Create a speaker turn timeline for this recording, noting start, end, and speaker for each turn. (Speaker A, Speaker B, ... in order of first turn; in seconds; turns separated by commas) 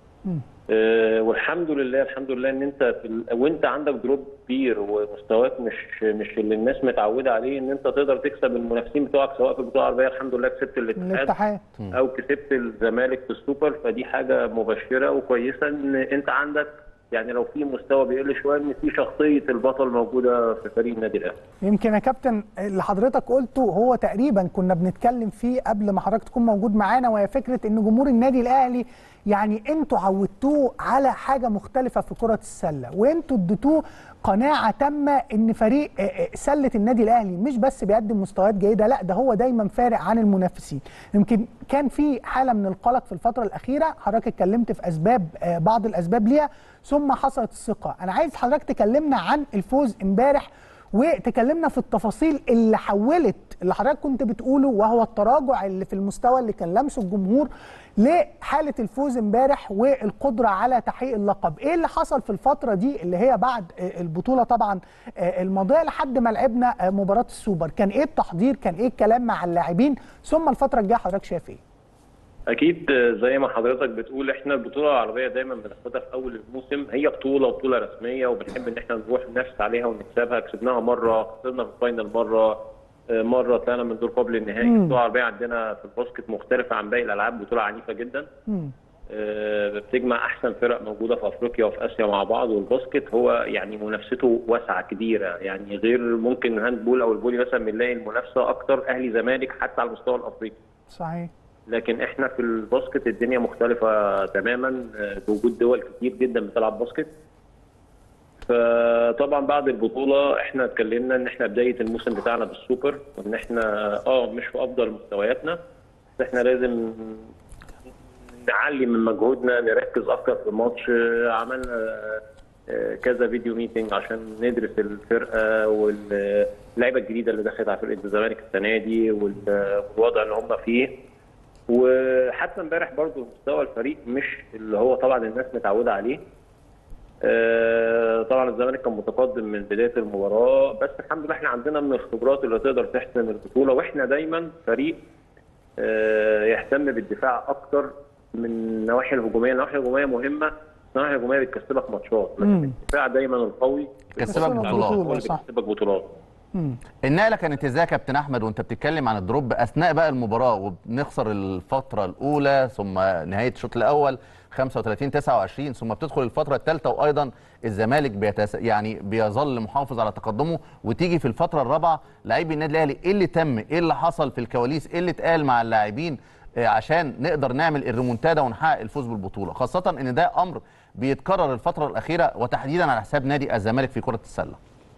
Speaker A: 0.7-11.3, Speaker B: 11.0-11.6, Speaker A: 11.9-21.4, Speaker B: 21.6-71.6, Speaker A: 72.5-82.6, Speaker A: 83.1-88.3, Speaker B: 84.6-85.0, Speaker A: 89.1-100.6, Speaker B: 100.9-101.3, Speaker A: 101.7-107.1, Speaker A: 108.5-115.6, Speaker A: 116.2-117.3, Speaker A: 118.3-130.9, Speaker A: 131.7-136.2, Speaker A: 137.2-145.0, Speaker A: 145.8-156.1, Speaker B: 152.4-152.8, Speaker C: 154.2-155.1, Speaker B: 154.3-155.4, Speaker C: 157.1-184.6